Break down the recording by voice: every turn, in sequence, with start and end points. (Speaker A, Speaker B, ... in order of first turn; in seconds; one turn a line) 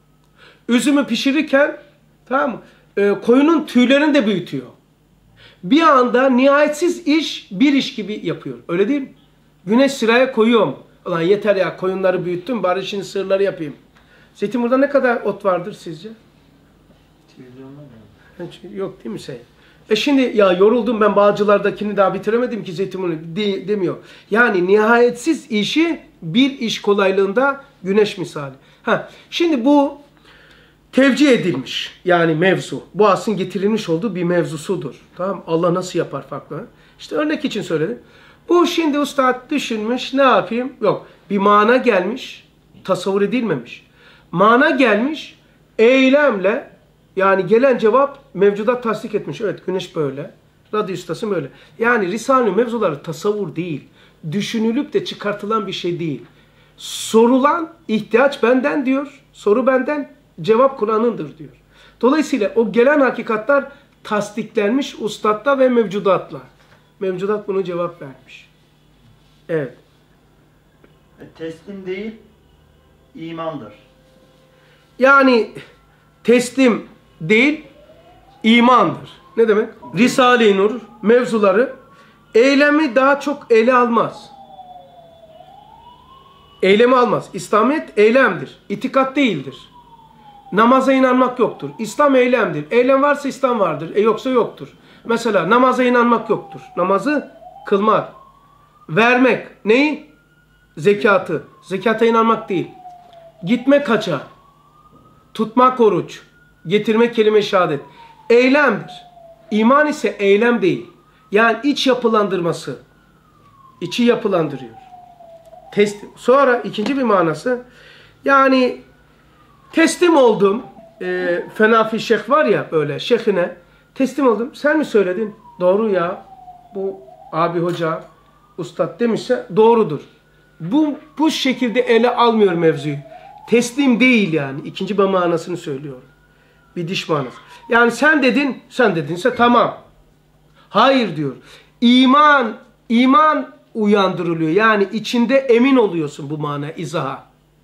Speaker A: 0.7-4.7
Speaker A: 5.6-9.1
Speaker A: 9.6-13.8
Speaker A: 14.3-16.2
Speaker B: 17.3-18.1
Speaker A: 18.4-30.0
Speaker A: 30.9-56.3
Speaker A: 56.8-68.5
Speaker A: 69.5-69.8
Speaker B: 71.2-72.2
Speaker B: 73.1-73.9
Speaker A: 75.0-75.6
Speaker A: 76.2-77.7
Speaker A: 78.4-81.8
Speaker B: 79.9-80.3
Speaker A: 82.3-84.3
Speaker A: 86.6-89.7
Speaker A: 90.5-98.1
Speaker A: 98.9-100.1
Speaker A: 100.8-102.7
Speaker A: 103.4-104.3
Speaker A: 105.3-112.8
Speaker A: 113.8-114.9
Speaker A: 115.7-117.6
Speaker A: 118.2-118.8
Speaker A: 119.7-128.1
Speaker A: 128.6-130.1
Speaker A: 130.6-136.1
Speaker A: 136.7-139.8
Speaker A: 140.7-147.2